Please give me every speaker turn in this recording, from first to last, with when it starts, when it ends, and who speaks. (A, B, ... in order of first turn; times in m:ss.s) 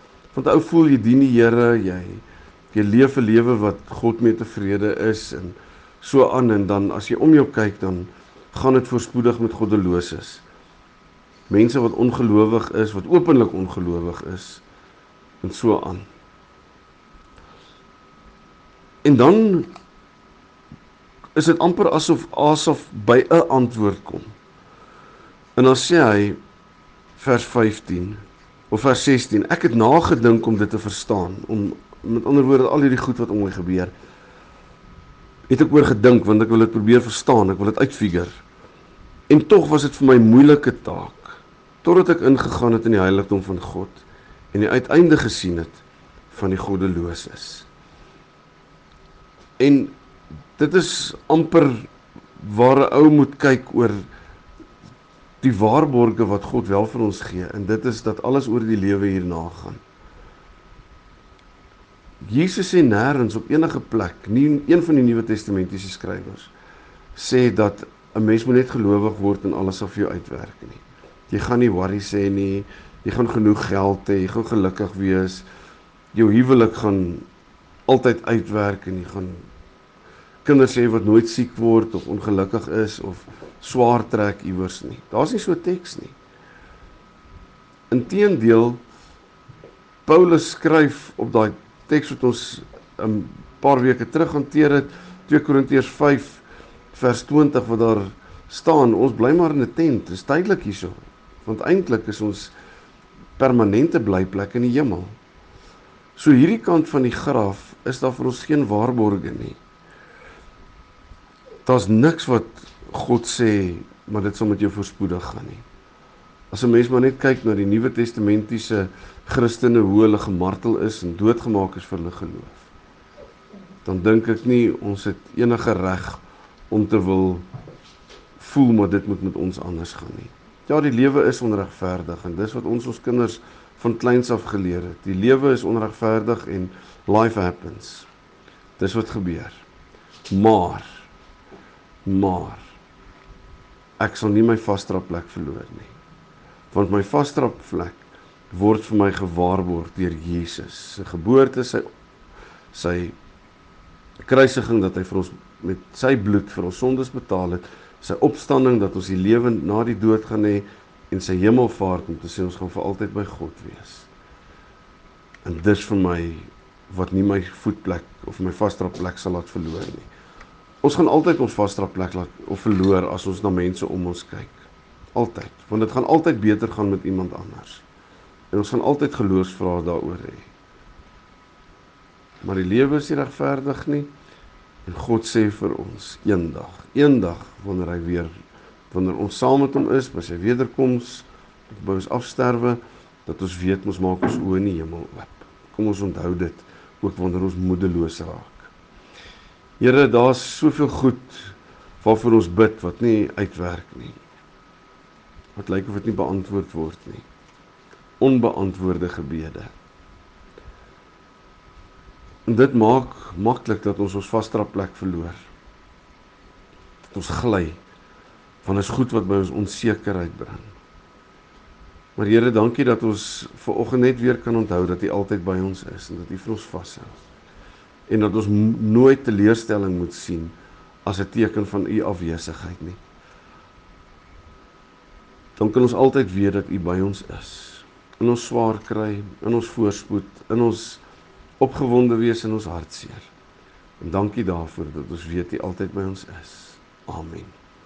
0:00.3-0:10.4 A
0:11.5-0:14.6 A
0:15.4-0:16.0 A
0:19.0-0:19.7 A
0:21.3-0:24.3 A
0:25.6-0:26.4 A
0:27.2-0:33.9 A
0:35.5-0:38.4 A
0:39.3-0:47.7 A
0:49.6-0:49.9 A
0:50.6-0:54.0 A
0:55.4-0:59.8 A
1:02.2-1:06.5 A
1:07.1-1:15.4 A
1:16.1-1:17.2 A
1:17.9-1:19.4 A
1:20.4-1:26.2 A
1:27.9-1:28.8 A
1:30.0-1:42.5 A
1:43.4-1:45.2 A
1:46.1-1:49.6 A
1:51.6-1:55.6 A
1:56.5-2:02.7 A
2:03.8-2:07.4 A
2:08.4-2:18.1 A
2:18.8-2:19.6 A
2:20.3-2:21.1 A
2:22.0-2:22.7 A
2:24.0-2:25.9 A
2:26.7-2:31.8 A
2:32.7-2:33.2 A
2:34.2-2:44.1 A
2:45.4-2:50.1 A
2:50.8-2:57.8 A
2:58.5-3:00.5 A
3:02.4-3:04.1 A
3:04.8-3:08.3 A
3:08.9-3:18.7 A
3:19.8-3:24.2 A
3:25.6-3:27.2 A
3:28.2-3:29.7 A
3:32.4-3:35.4 A
3:37.1-3:37.8 A
3:38.6-3:40.7 A
3:42.2-3:47.1 A
3:48.1-3:53.0 A
3:55.6-4:01.0 A
4:01.6-4:03.3 A
4:04.0-4:07.5 A